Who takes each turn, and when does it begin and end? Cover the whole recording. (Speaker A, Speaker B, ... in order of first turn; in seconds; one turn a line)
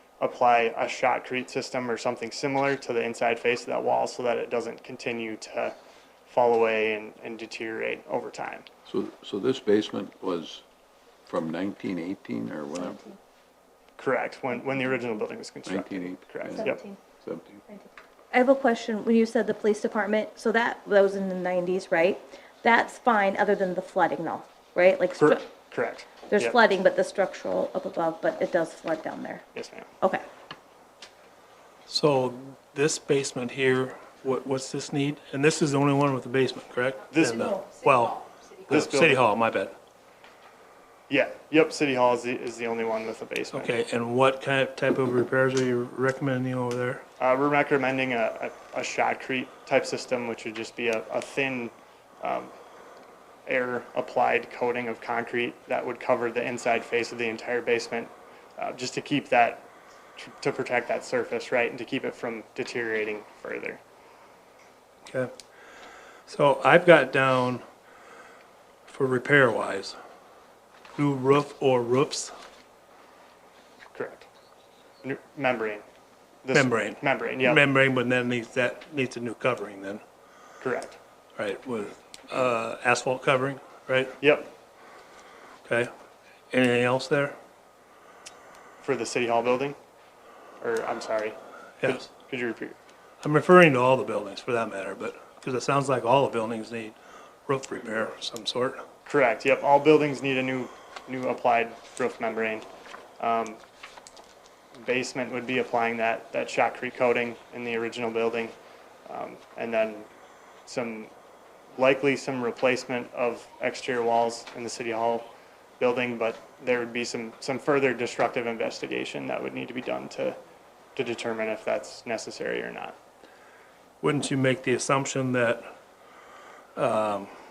Speaker A: 0.2-5.8
Speaker A: 6.3-8.7
Speaker B: 8.9-10.6
Speaker B: 11.3-13.0
Speaker C: 12.8-13.2
Speaker A: 14.0-16.8
Speaker B: 15.7-17.6
Speaker C: 16.6-17.0
Speaker C: 17.7-25.5
Speaker A: 25.2-26.6
Speaker C: 26.3-29.4
Speaker A: 29.5-29.9
Speaker D: 31.9-39.7
Speaker A: 37.1-37.6
Speaker A: 38.7-39.2
Speaker A: 41.1-43.7
Speaker D: 43.5-47.0
Speaker A: 47.2-52.5
Speaker A: 53.5-63.8
Speaker D: 66.3-67.6
Speaker D: 68.9-70.0
Speaker D: 71.0-72.3
Speaker A: 73.9-74.3
Speaker A: 75.0-75.8
Speaker A: 76.4-77.6
Speaker D: 76.5-80.0
Speaker A: 80.6-81.0
Speaker D: 81.4-84.2
Speaker A: 84.2-84.5
Speaker D: 86.5-87.3
Speaker A: 88.8-89.8
Speaker A: 90.6-92.8
Speaker D: 93.2-97.0
Speaker D: 97.5-98.8
Speaker A: 99.1-102.7
Speaker A: 103.2-103.6
Speaker A: 104.8-108.5
Speaker A: 109.1-110.1
Speaker A: 110.7-111.1
Speaker A: 111.8-115.3
Speaker A: 115.8-120.4
Speaker A: 121.0-123.0
Speaker D: 124.0-125.7
Speaker D: 126.8-127.3